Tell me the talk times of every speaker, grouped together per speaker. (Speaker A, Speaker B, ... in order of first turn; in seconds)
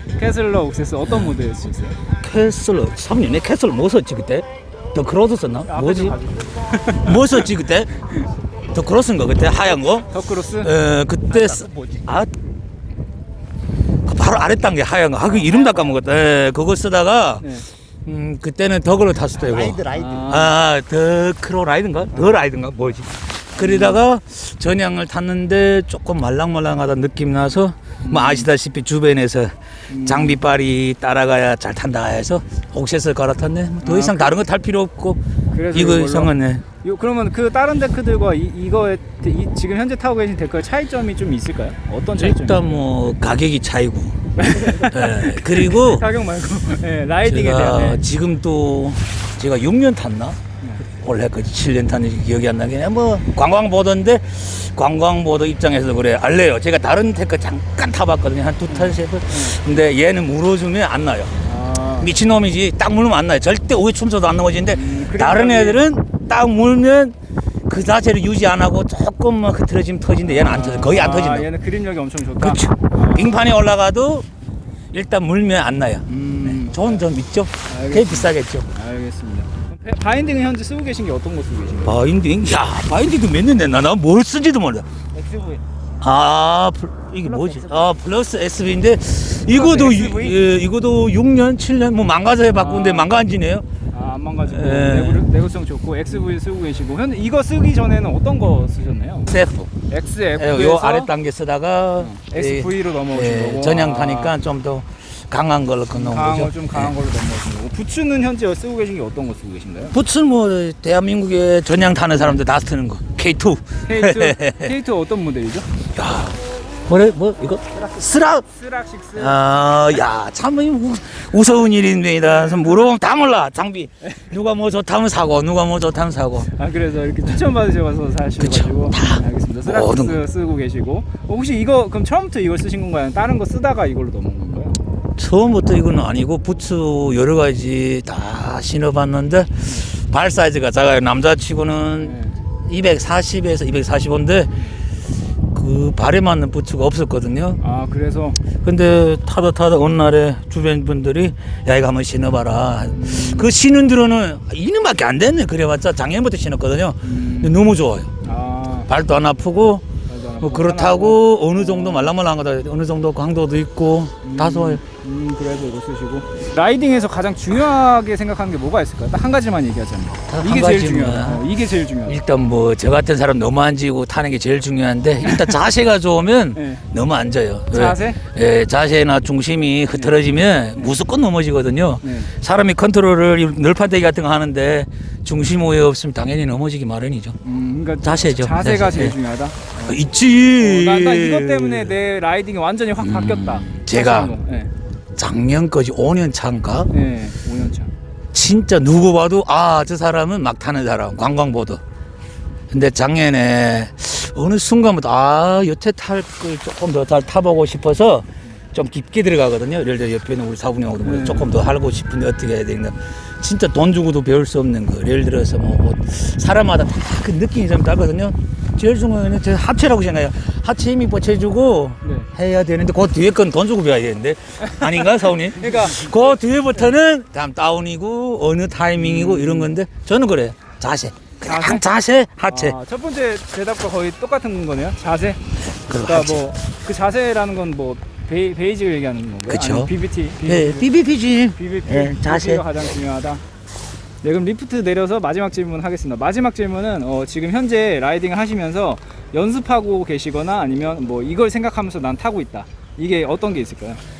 Speaker A: 0.2-2.0, 5.7-7.3, 10.1-10.7, 17.4-17.7, 19.8-20.6, 23.6-24.0, 28.0-28.5, 29.9-30.4, 33.8-34.4, 35.5-42.9, 44.4-48.0, 50.6-50.9, 58.7-59.6, 61.4-62.1, 64.7-65.8, 70.2-73.5, 76.1-77.0, 77.7-82.0, 85.2-85.6, 89.5-90.5, 92.5-93.1, 93.9-99.3, 99.9-101.1, 102.0-104.4, 105.9-110.0, 112.2-112.4, 113.9-115.7, 118.5-119.4, 122.2-122.8, 126.5-134.8, 139.6-139.9, 142.0-142.4, 147.6-148.4, 152.9-153.5, 157.0-157.6, 158.2-158.9, 160.1-162.1, 164.2-172.2, 175.2-175.5, 176.6-176.8, 177.7-178.2, 179.9-180.2, 182.0-182.3, 187.4-194.7, 196.9-197.9, 211.0-211.5, 222.0-222.3, 224.6-226.3, 229.0-229.7, 231.4-231.8, 232.5-235.4, 236.0-240.9, 241.5-243.4, 244.2-254.0
Speaker B: 1.1-1.3, 2.2-6.2, 6.9-8.1, 8.7-10.1, 10.6-12.3, 14.1-17.5, 18.1-35.2, 35.7-36.6, 42.2-46.1, 47.2-61.4, 62.0-67.1, 67.7-71.5, 72.4-74.2, 74.9-78.7, 81.8-84.9, 86.0-93.7, 94.4-95.3, 99.3-99.7, 100.3-106.9, 109.9-114.7, 116.0-118.5, 119.1-126.5, 128.4-130.2, 135.2-142.1, 142.7-144.5, 145.5-147.6, 148.6-158.1, 158.9-159.8, 160.4-164.8, 170.3-171.5, 172.1-187.4, 188.0-189.2, 189.8-191.9, 193.0-194.3, 195.2-196.9, 198.3-201.8, 202.7-232.8, 235.7-236.4, 239.5-239.9, 240.4-242.6